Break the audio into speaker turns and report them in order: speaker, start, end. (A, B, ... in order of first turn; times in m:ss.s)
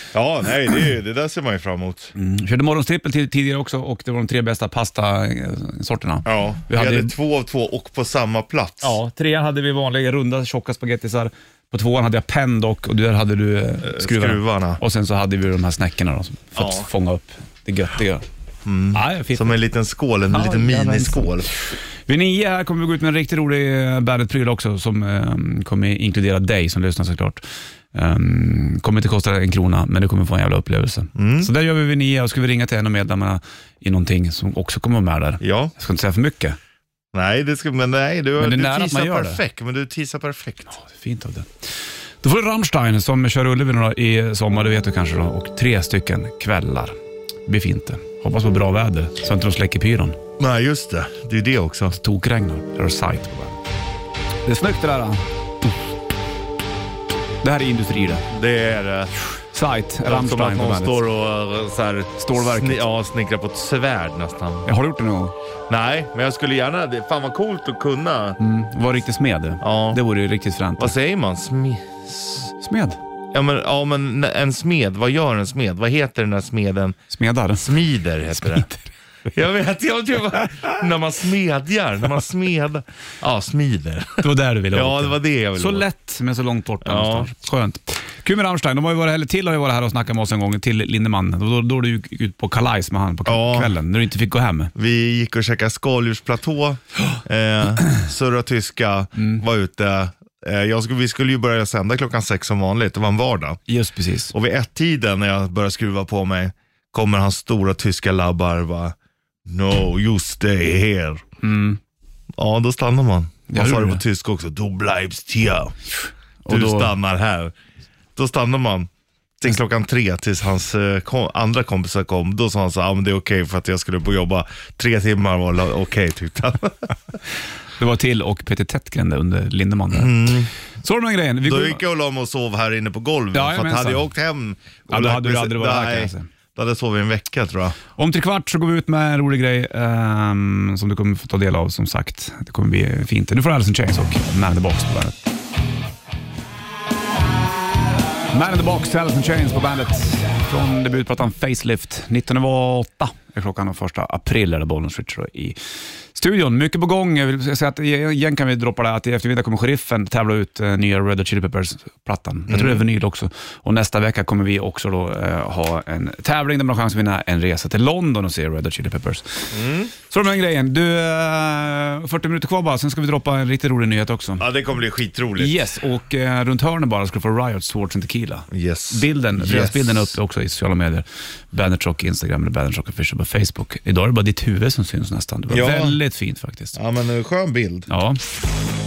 0:00.1-0:02.1 A
0:02.2-0:07.1 B
0:06.2-0:09.0 A
0:08.8-0:18.2 B
0:13.8-0:14.8 A
0:16.6-0:16.9 A
0:18.6-0:21.5 A
0:18.9-0:19.6 B
0:20.3-0:21.3 B
0:22.1-0:27.4 B
0:27.9-0:36.6 B
0:31.2-0:31.5 A
0:35.4-0:35.7 A
0:37.1-0:40.8 A
0:38.4-0:39.4 B
0:40.7-0:47.0 B
0:47.5-0:50.2 B
0:50.4-0:52.0 A
0:51.9-0:53.6 B
0:54.5-0:55.8 B
0:57.4-0:58.2 B
0:58.3-0:59.1 A
0:59.5-1:01.0 B
1:00.1-1:04.7 A
1:02.2-1:02.8 B
1:04.6-1:05.4 B
1:05.7-1:08.4 A
1:08.4-1:10.9 B
1:09.6-1:10.0 A
1:10.8-1:12.5 A
1:12.6-1:13.0 B
1:13.3-1:17.0 A
1:17.1-1:17.7 B
1:17.6-1:18.7 A
1:18.3-1:18.8 B
1:19.3-1:25.9 A
1:24.2-1:34.7 B
1:26.8-1:27.3 A
1:33.3-1:33.8 A
1:34.8-1:43.6 A
1:39.2-1:39.4 B
1:43.7-1:44.3 B
1:44.3-1:51.2 A
1:51.4-1:51.8 B
1:52.4-1:55.8 A
1:53.5-1:54.0 B
1:56.4-1:56.9 B
1:56.5-1:57.5 A
1:58.2-1:58.9 A
1:59.4-2:07.2 A
2:07.8-2:10.3 B
2:09.9-2:10.5 A
2:10.8-2:11.8 B
2:11.4-2:17.8 A
2:13.3-2:14.1 B
2:14.9-2:16.3 B
2:18.0-2:25.2 B
2:28.3-2:35.6 B
2:36.2-2:49.5 B
2:42.5-2:42.8 A
2:49.5-2:49.9 A
2:50.1-2:54.4 B
2:54.4-2:55.6 A
2:55.4-3:06.8 B
2:58.5-3:00.1 A
3:05.5-3:06.0 A
3:06.8-3:07.9 A
3:07.9-3:08.2 B